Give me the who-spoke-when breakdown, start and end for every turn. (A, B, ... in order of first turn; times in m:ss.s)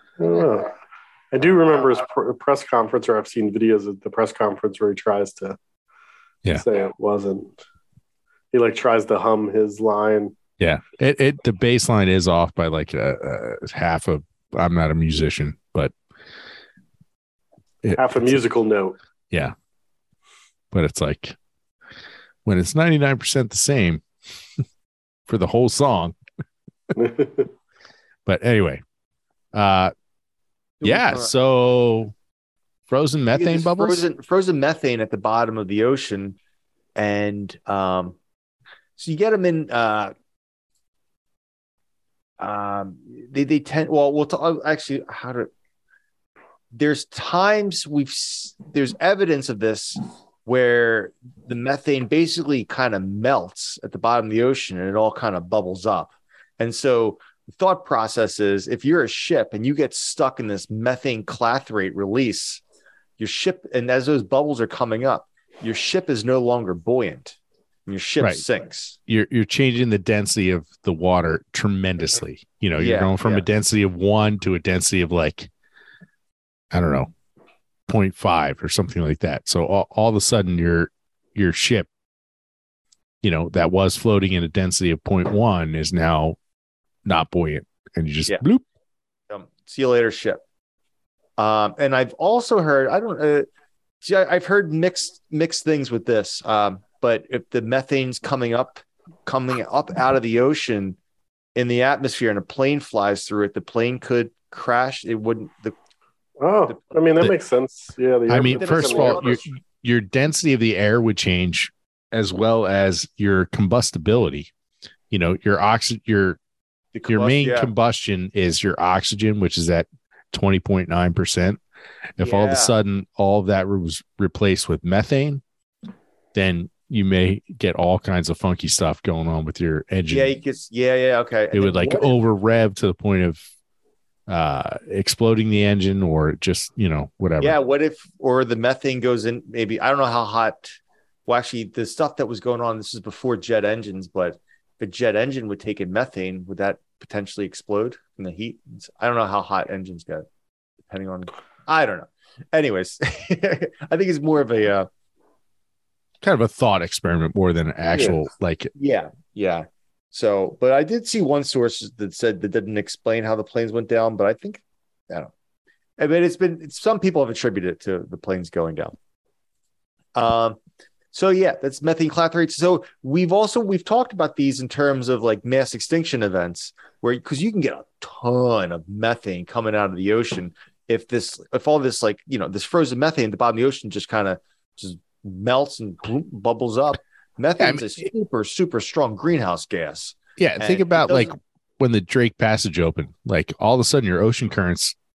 0:00.2-0:00.7 A
0:00.3-0:00.6 B
0:01.3-0:05.6 A
0:01.4-0:02.0 B
0:06.5-0:07.5 A
0:08.5-0:10.3 A
0:10.6-0:15.9 C
0:17.8-0:18.4 C
0:18.0-0:19.0 A
0:20.7-0:21.4 C
0:22.4-0:24.0 C
0:25.3-0:26.1 C
0:27.0-0:27.5 A
0:28.2-0:28.8 C
0:29.5-0:29.9 C
0:30.8-0:31.3 B
0:30.8-0:32.1 C
0:32.9-0:34.0 C
0:33.3-0:36.4 B
0:36.9-0:38.2 B
0:39.0-0:40.1 B
0:42.4-0:45.5 B
0:46.7-1:02.6 B
1:03.2-1:09.0 B
1:09.1-1:15.5 C
1:12.7-1:13.4 B
1:16.7-1:17.1 C
1:17.9-1:21.9 C
1:23.2-1:26.4 C
1:27.0-1:28.6 C
1:29.3-1:30.4 B
1:31.4-1:33.4 B
1:34.0-1:41.0 B
1:41.6-1:45.8 B
1:46.4-1:49.3 A
1:46.7-1:47.0 B
1:48.3-1:54.5 C
1:48.4-1:49.4 B
1:55.1-1:56.4 C
1:56.9-1:57.7 B
1:57.1-2:01.6 C
2:02.2-2:05.4 C
2:02.2-2:02.7 B
2:06.3-2:10.3 C
2:10.1-2:12.2 B
2:11.5-2:13.4 C
2:14.3-2:17.6 C
2:17.4-2:30.2 B
2:30.9-2:34.9 B
2:36.2-2:38.7 C
2:38.8-2:45.3 B
2:46.0-2:49.0 B
2:50.2-2:50.6 B
2:51.1-3:11.3 B
3:07.6-3:07.9 C
3:10.4-3:15.0 C